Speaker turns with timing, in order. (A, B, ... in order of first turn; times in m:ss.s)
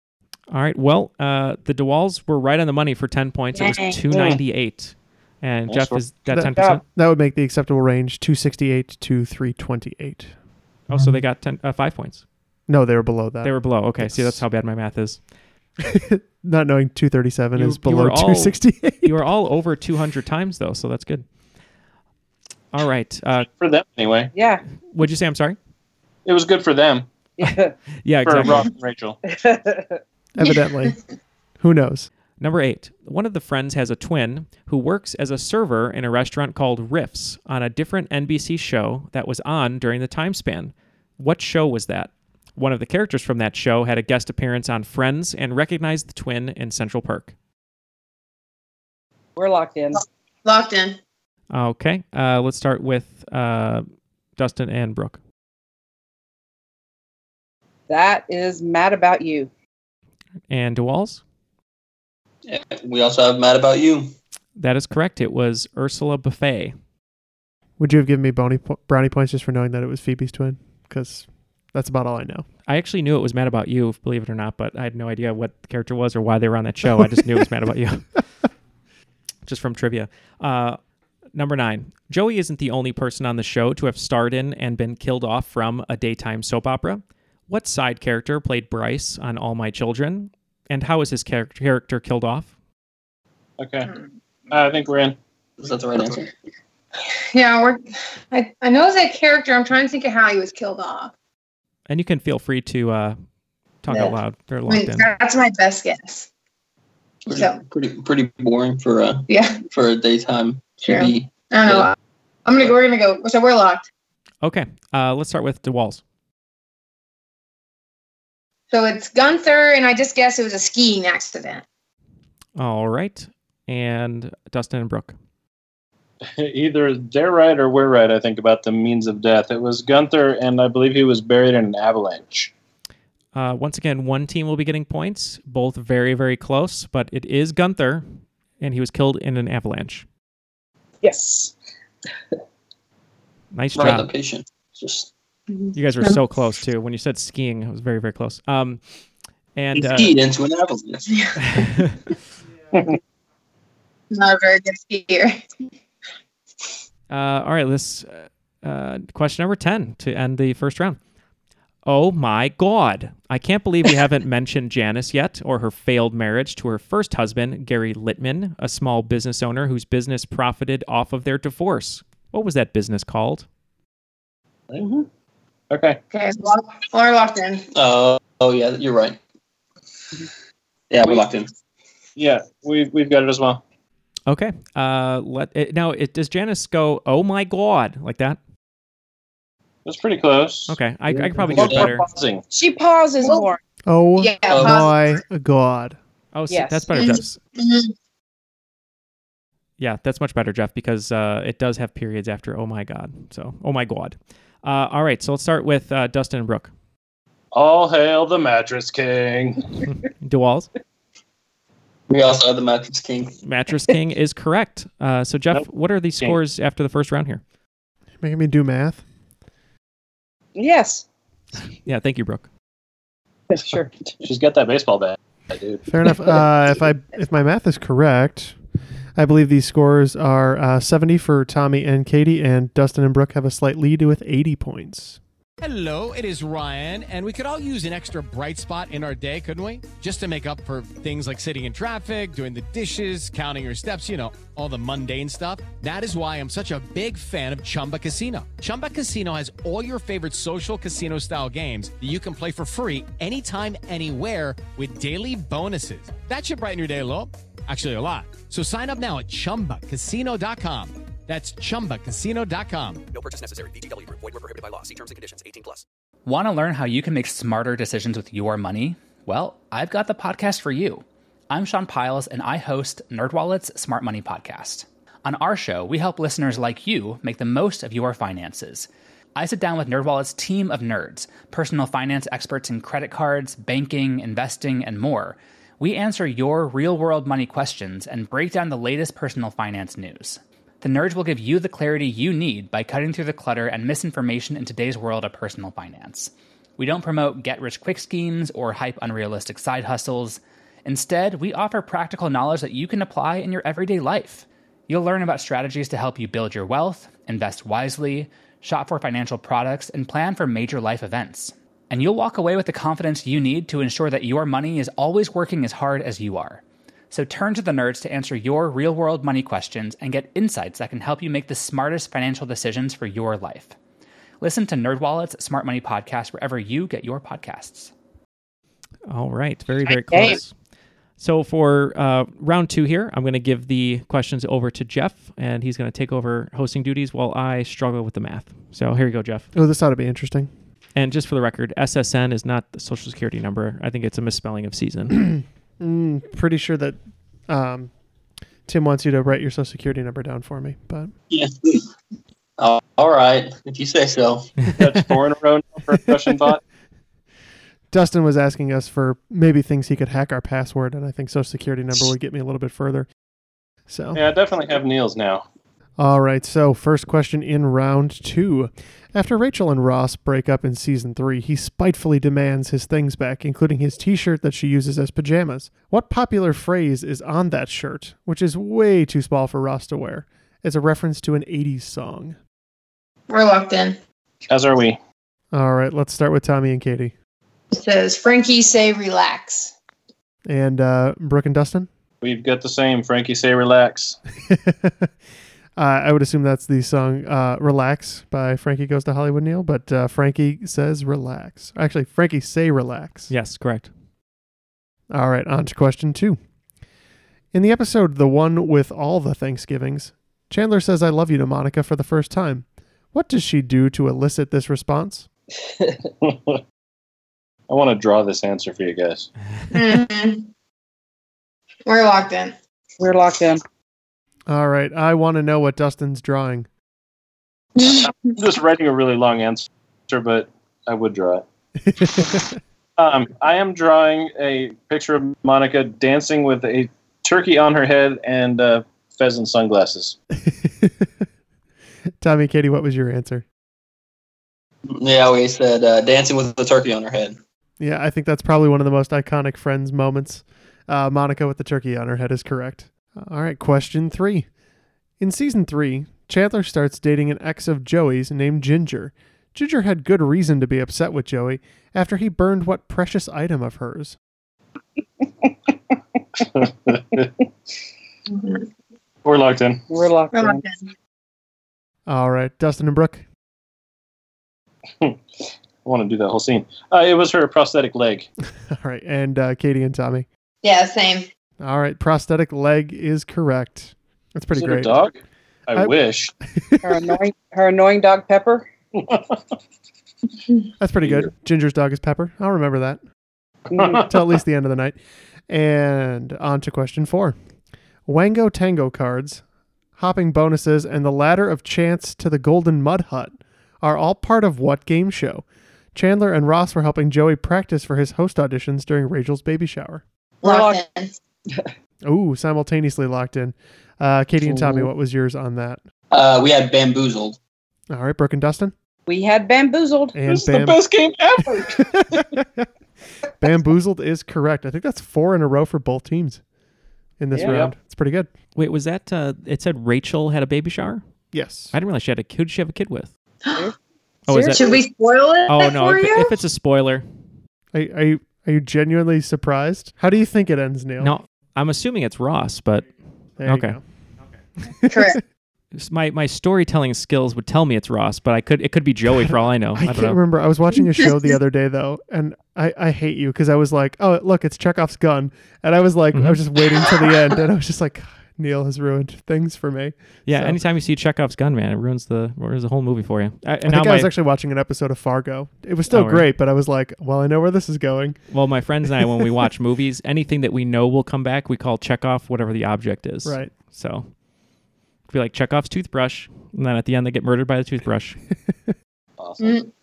0:00.5-0:06.8 A
0:03.6-0:04.4 B
0:05.7-0:06.0 C
0:06.3-0:10.3 D
0:06.5-0:06.8 B
0:10.9-0:12.2 A
0:12.7-0:14.4 D
0:13.4-0:15.2 A
0:15.8-0:19.2 D
0:17.6-0:21.2 A
0:22.7-0:23.5 A
0:23.6-0:24.3 C
0:24.3-0:24.6 B
0:24.9-0:25.6 A
0:26.2-0:27.1 C
0:27.4-0:27.8 B
0:28.0-0:28.7 A
0:28.2-0:29.2 C
0:29.3-0:30.0 B
0:30.4-0:31.0 D
0:31.6-0:32.1 D
0:32.4-0:47.3 A
0:49.4-0:50.0 B
0:50.4-0:51.0 E
0:51.5-0:53.9 A
0:54.4-0:55.2 A
0:57.9-0:59.5 B
1:00.5-1:01.2 A
1:02.5-1:04.1 F
1:04.6-1:06.8 A
1:07.8-1:12.4 D
1:12.7-1:18.1 A
1:19.5-1:20.8 A
1:21.4-1:32.5 A
1:33.6-1:33.9 C
1:34.5-1:35.2 C
1:35.6-1:36.3 F
1:37.3-1:41.1 E
1:41.9-1:43.2 A
1:43.8-1:45.1 A
1:44.7-1:46.3 E
1:47.3-1:51.9 F
1:47.3-1:47.6 E
1:49.3-1:49.6 E
1:50.8-1:51.9 E
1:52.5-1:53.9 E
1:54.4-1:56.0 A
1:58.7-2:01.6 E
2:02.6-2:05.1 A
2:06.4-2:12.5 C
2:13.3-2:18.0 A
2:18.6-2:20.1 A
2:21.0-2:21.5 B
2:23.5-2:24.1 A
2:23.8-2:25.1 F
2:25.5-2:26.2 E
2:25.8-2:28.8 A
2:29.6-2:30.2 A
2:29.8-2:31.2 F
2:31.4-2:32.0 A
2:34.1-2:35.4 E
2:37.1-2:41.0 A
2:41.9-2:53.5 A
2:54.7-2:55.0 C
2:55.7-2:56.0 C
2:56.1-2:57.6 E
2:57.7-2:59.2 F
3:00.9-3:01.5 F
3:02.2-3:03.6 C
3:04.3-3:08.4 A
3:09.8-3:10.8 C
3:10.7-3:12.1 A
3:11.4-3:12.4 C
3:11.5-3:11.9 F
3:12.5-3:13.6 B
3:13.9-3:16.0 D
3:14.2-3:14.9 E
3:14.5-3:14.9 F
3:16.3-3:17.4 A
3:16.5-3:17.1 B
3:16.9-3:17.9 E
3:19.8-3:26.7 A
3:27.5-3:29.6 C
3:30.0-3:30.7 A
3:32.1-3:33.4 F
3:33.4-3:37.4 A
3:38.2-3:39.0 D
3:40.6-3:41.0 B
3:41.8-3:42.5 A
3:43.5-3:43.9 B
3:44.2-3:45.8 C
3:45.9-3:48.6 D
3:49.2-3:55.2 D
3:55.6-4:23.0 G
4:23.1-4:25.8 H
4:26.3-5:23.8 I
5:24.4-5:27.9 I
5:29.1-5:30.5 A
5:29.9-5:30.4 B
5:31.2-5:39.5 A
5:39.5-5:40.5 D
5:41.0-5:45.2 A
5:45.1-5:47.9 D
5:48.7-5:51.1 D
5:51.3-5:51.9 F
5:52.6-5:54.6 F
5:54.8-5:56.6 C
5:57.9-6:03.1 D
6:03.9-6:04.2 D
6:04.2-6:05.4 C
6:06.0-6:22.4 D
6:23.3-6:24.0 E
6:24.5-6:25.0 C
6:25.5-6:27.1 D
6:27.7-6:29.7 E
6:30.5-6:31.9 D
6:32.2-6:34.2 C
6:34.5-6:35.1 D
6:35.8-6:43.3 D
6:43.3-6:43.9 A
6:45.1-6:46.4 D
6:47.5-6:55.3 D
6:56.2-6:56.6 C
6:57.7-6:59.3 C
6:59.7-7:00.5 E
7:01.9-7:02.5 E
7:03.0-7:03.6 B
7:04.5-7:06.7 D
7:07.8-7:08.1 E
7:07.9-7:11.4 C
7:11.9-7:12.6 D
7:13.0-7:20.2 C
7:20.4-7:21.2 D
7:22.2-7:23.4 D
7:24.9-7:27.4 F
7:27.8-7:34.5 D
7:35.2-7:44.2 D
7:46.4-7:47.3 C
7:48.3-7:48.7 E
7:49.2-7:49.8 C
7:49.9-7:50.6 B
7:50.3-7:50.8 E
7:52.1-7:53.2 D
7:55.8-7:58.3 C
7:58.6-8:00.3 D
8:00.6-8:01.3 E
8:01.6-8:05.1 D
8:04.5-8:06.3 C
8:06.6-8:07.2 D
8:06.8-8:08.7 B
8:09.0-8:09.4 C
8:10.8-8:13.0 D
8:13.7-8:14.0 B
8:13.8-8:14.0 C
8:14.0-8:15.0 D
8:15.5-8:17.4 D
8:18.1-8:19.4 D
8:20.0-8:30.0 D
8:30.4-8:30.8 B
8:30.4-8:31.1 E
8:32.0-8:35.8 D
8:36.1-8:37.4 F
8:37.9-8:38.7 D
8:39.1-8:40.2 B
8:40.2-8:40.8 D
8:40.3-8:42.2 C
8:41.6-8:42.7 D
8:43.4-8:46.4 D
8:47.2-8:48.3 D
8:47.4-8:47.7 C
8:48.6-8:51.0 A
8:51.3-8:51.7 D
8:51.7-8:53.1 A
8:54.3-8:54.7 A
8:54.3-8:54.8 B
8:54.5-8:56.3 E
8:55.5-8:57.0 A
8:57.7-9:01.1 D
9:01.0-9:02.9 A
9:03.4-9:03.8 D
9:03.5-9:03.8 A
9:04.6-9:05.2 D
9:04.9-9:05.2 E
9:05.8-9:10.2 A
9:09.2-9:20.6 D
9:16.1-9:16.4 A
9:20.3-9:24.1 A
9:23.7-9:28.2 D
9:25.9-9:26.3 A
9:28.3-9:34.1 A
9:29.0-9:29.3 D
9:33.2-9:33.5 D
9:35.1-9:38.2 A
9:39.2-9:39.6 C